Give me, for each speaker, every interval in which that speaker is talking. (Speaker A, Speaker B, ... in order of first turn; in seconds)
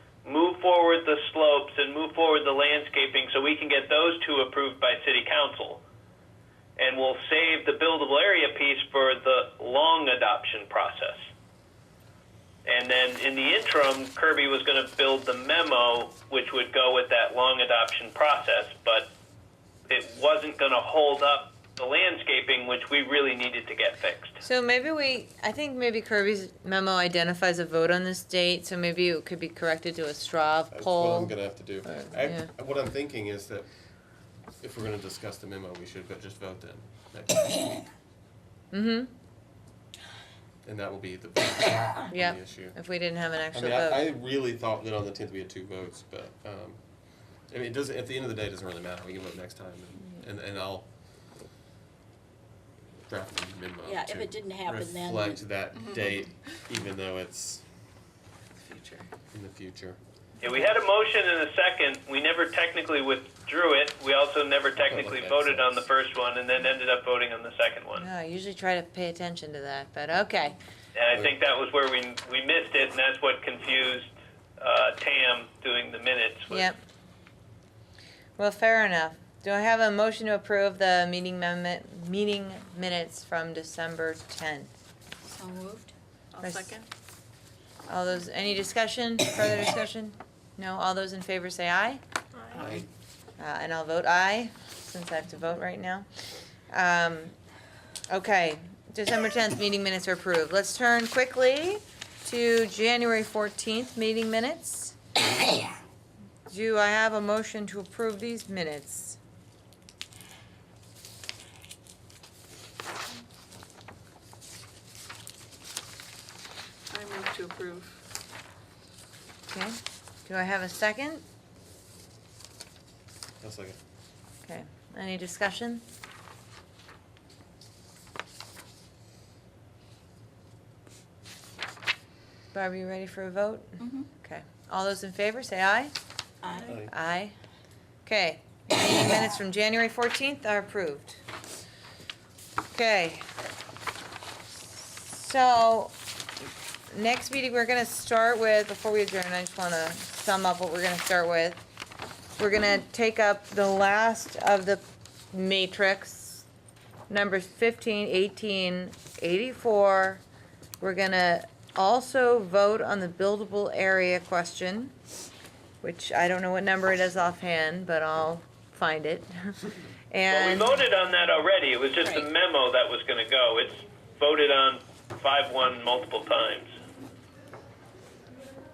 Speaker A: 0.2-5.8, 6.8-11.3, 12.7-19.1, 19.9-24.4, 60.4-68.1, 71.0-76.7, 170.3-176.7
Speaker B: 24.4-32.5, 38.7-39.1, 42.1-44.1, 68.0-70.6, 76.5-76.8, 78.4-84.7, 86.4-86.8, 87.9-92.0, 93.4-96.1, 96.7-97.3, 98.1-105.0, 106.5-109.2, 119.5-121.2, 124.5-125.8, 132.5-135.9, 136.8-137.3, 138.1-141.2, 142.7-143.3, 144.7-146.0, 146.9-151.6, 152.4-156.5, 157.1-160.2, 160.8-164.9, 165.8-170.8
Speaker C: 30.7-33.7, 34.6-37.6, 40.6-42.8, 43.5-46.8, 47.5-50.9, 53.1-57.6, 59.3-60.0, 64.8-65.8, 92.6-92.8, 123.4-123.8, 136.7-136.9
Speaker D: 53.8-55.4, 85.3-85.9, 133.8-134.1, 136.4-136.8, 172.0-172.3
Speaker E: 55.8-56.2, 58.6-59.1, 86.3-86.9, 92.5-92.8, 116.9-118.0